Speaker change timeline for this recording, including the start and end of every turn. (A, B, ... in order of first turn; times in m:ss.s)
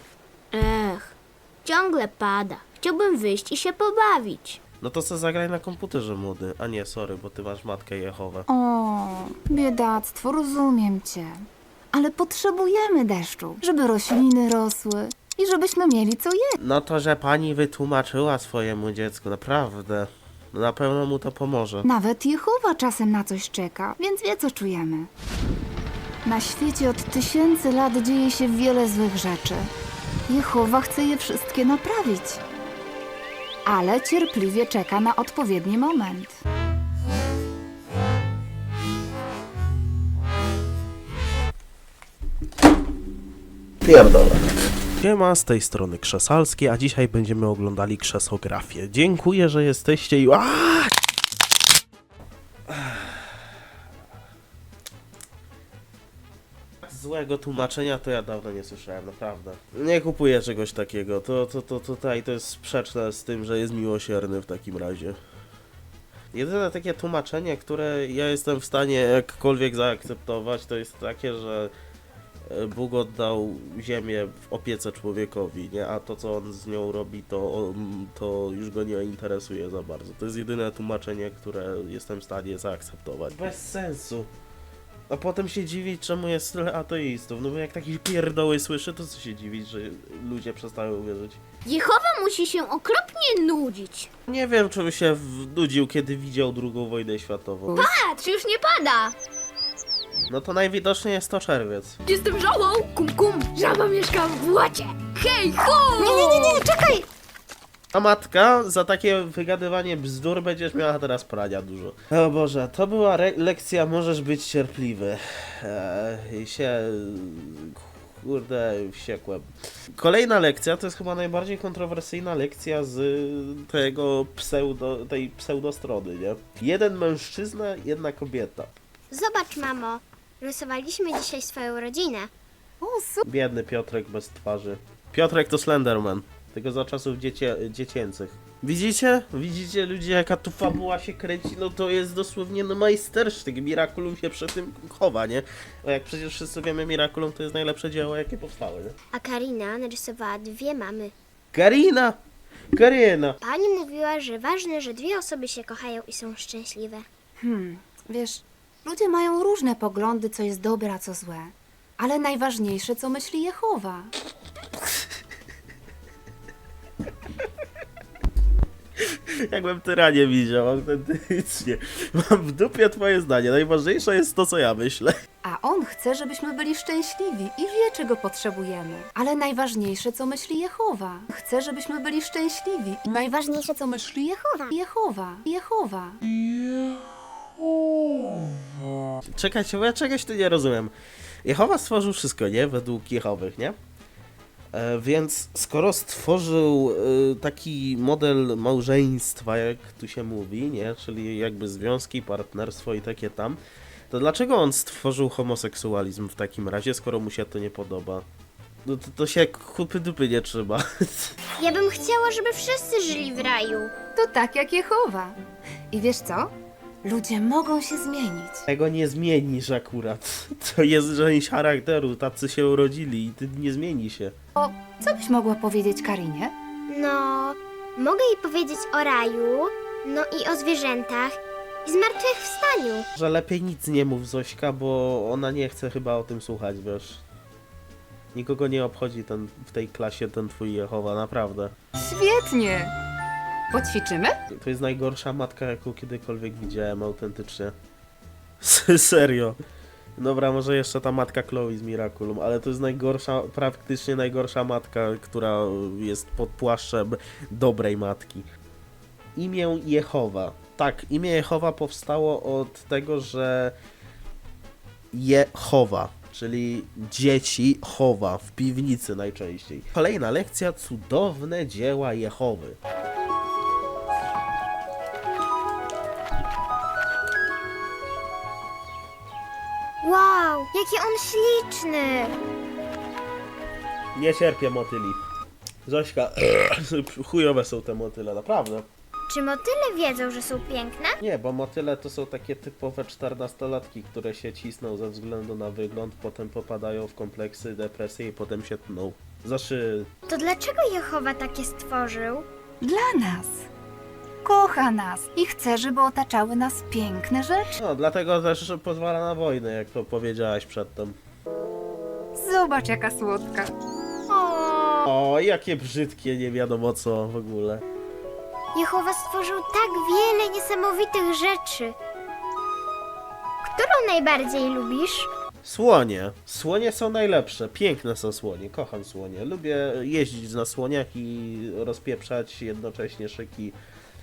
0:00.5-0:04.6 A
0:04.8-0:08.5 B
0:08.5-0:16.6 C
0:16.6-0:21.9 B
0:21.8-0:25.1 C
0:26.2-0:29.7 C
0:30.3-0:32.4 C
0:33.7-0:36.3 C
0:43.8-0:44.4 B
0:45.0-0:50.9 B
0:52.7-0:53.5 B
0:56.8-1:05.2 B
1:06.3-1:11.7 B
1:12.5-1:24.3 B
1:25.1-1:31.4 B
1:31.6-1:34.1 A
1:34.3-1:37.9 B
1:37.7-1:39.1 A
1:40.3-1:42.0 B
1:42.1-1:46.7 A
1:46.0-1:47.0 D
1:47.9-2:08.7 B
2:09.1-2:12.3 D
2:12.8-2:13.2 C
2:13.2-2:29.0 B
2:29.1-2:31.1 D
2:31.5-2:32.2 B
2:32.7-2:33.4 B
2:33.4-2:37.1 D
2:37.4-2:44.1 C
2:49.0-2:55.1 B
2:55.4-3:06.2 C
3:09.3-3:13.8 B
3:14.7-3:28.2 B
3:28.8-3:31.4 B
3:31.6-3:33.9 D
3:34.2-3:35.4 C
3:35.9-3:36.5 C
3:37.0-3:38.7 C
3:38.7-3:44.4 B
3:44.6-3:46.5 C
3:46.9-3:53.0 D
3:53.2-3:57.2 B
3:58.3-4:01.7 B
4:02.0-4:02.9 C
4:03.7-4:04.4 C
4:04.5-4:07.8 B
4:08.6-4:09.6 B
4:10.2-4:18.5 B
4:19.4-4:23.8 B
4:25.1-4:32.8 B
4:40.0-4:42.4 D
4:44.2-4:45.2 B
4:45.9-4:48.9 B
4:49.3-4:51.2 D
4:51.2-5:00.1 B
5:00.3-5:02.5 D
5:02.8-5:03.7 C
5:04.4-5:07.8 C
5:07.8-5:11.2 B
5:12.4-5:13.7 C
5:14.3-5:15.0 D
5:15.1-5:17.8 B
5:18.7-5:22.0 D
5:23.6-5:25.3 D
5:25.6-5:33.8 B